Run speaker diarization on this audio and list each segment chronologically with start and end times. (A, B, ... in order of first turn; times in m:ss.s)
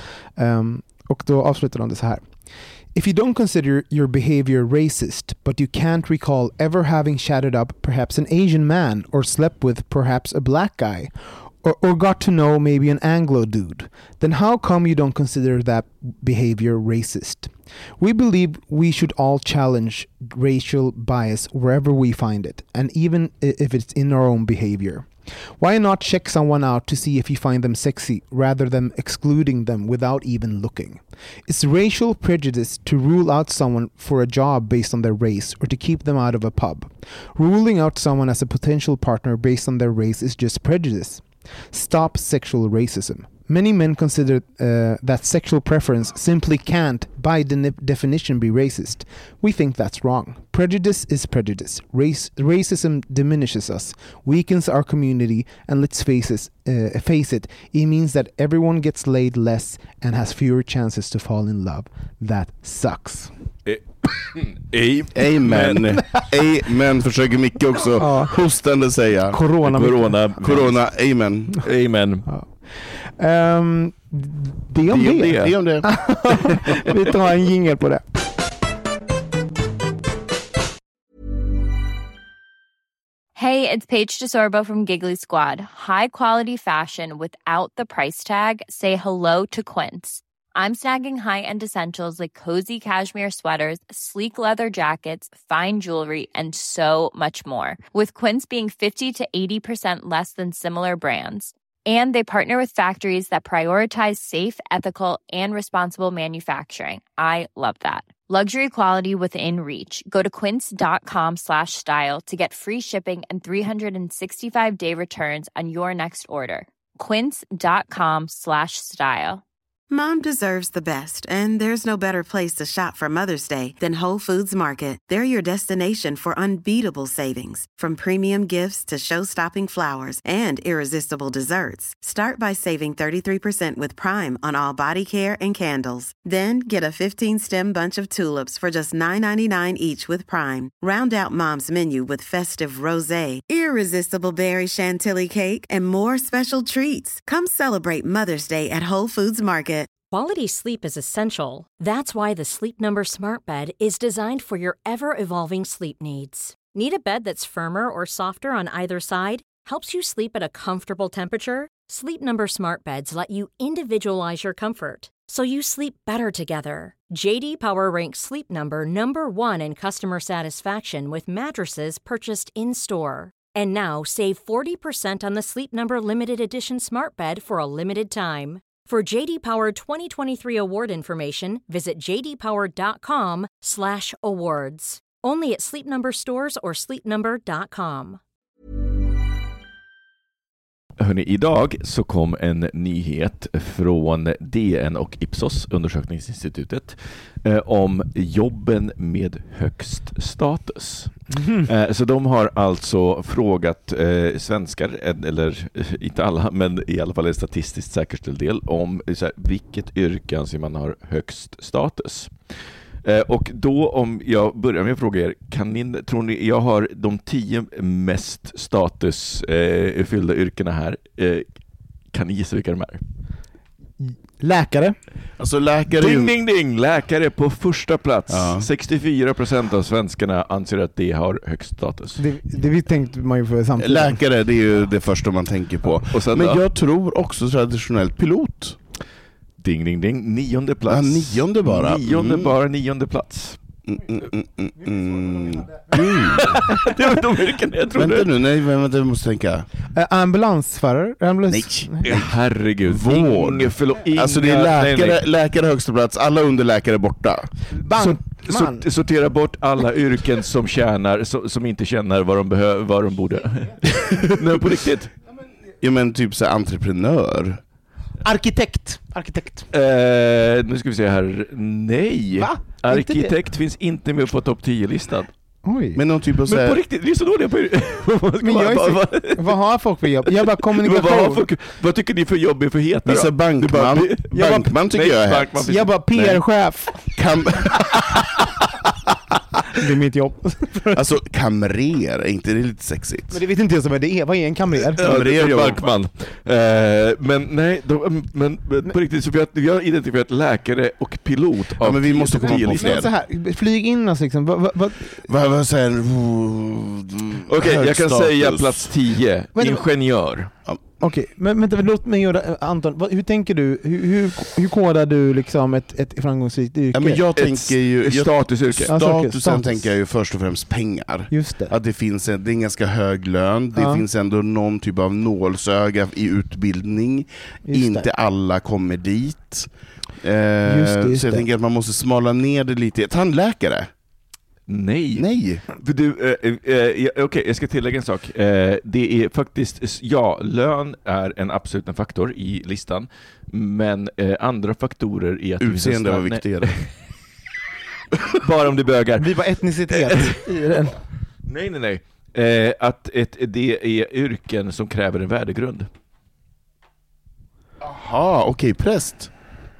0:00.4-0:02.3 A
0:03.0-1:03.3 A
1:03.7-1:06.0 B
1:05.2-1:09.4 C
1:08.0-1:08.4 A
1:09.3-1:10.2 A
1:09.6-1:10.9 B
1:10.4-1:11.6 C
1:11.6-1:12.3 B
1:12.3-1:18.2 A
1:14.9-1:15.5 B
1:15.3-1:15.9 C
1:23.4-1:59.4 D
1:59.9-2:29.9 E
2:30.1-3:08.2 F
3:11.0-3:41.5 B
3:21.4-3:21.6 A
3:42.1-3:43.0 B
3:44.0-3:45.0 A
3:45.4-3:46.3 C
3:46.0-3:52.2 B
3:48.3-3:48.7 C
3:52.2-3:54.2 A
3:53.8-3:58.8 C
3:56.1-3:56.6 B
3:59.6-4:03.6 B
4:00.9-4:02.5 C
4:03.9-4:06.6 C
4:06.3-4:08.3 B
4:08.0-4:09.7 C
4:09.9-4:12.1 A
4:11.5-4:17.5 C
4:12.0-4:15.2 B
4:17.8-4:18.9 A
4:18.0-4:25.1 B
4:25.8-4:27.6 C
4:28.2-4:29.7 A
4:29.7-4:35.3 B
4:32.4-4:33.4 A
4:35.6-4:36.0 A
4:36.0-4:36.8 C
4:36.5-4:39.6 B
4:38.4-4:41.4 A
4:40.3-4:46.4 B
4:43.1-4:45.6 C
4:44.3-4:44.7 A
4:45.6-4:47.2 A
4:47.1-4:48.2 C
4:49.7-4:51.0 A
4:50.9-4:53.4 C
4:53.3-4:55.0 A
4:55.0-4:55.9 C
4:55.0-5:03.0 B
5:01.8-5:03.1 C
5:02.5-5:05.3 A
5:05.2-5:09.0 C
5:07.5-5:10.5 B
5:09.6-5:09.8 A
5:10.7-5:11.0 C
5:11.0-5:17.2 A
5:16.9-5:33.9 C
5:17.4-5:18.9 B
5:18.9-5:19.9 A
5:21.3-5:21.8 A
5:23.8-5:24.0 A
5:27.7-5:28.1 A
5:30.6-5:31.5 A
5:34.7-5:46.9 B
5:35.2-5:35.6 C
5:45.6-5:46.8 C
5:48.4-5:49.3 B
5:49.2-5:51.0 A
5:49.9-5:50.4 B
5:51.5-5:55.9 B
5:57.8-5:59.3 C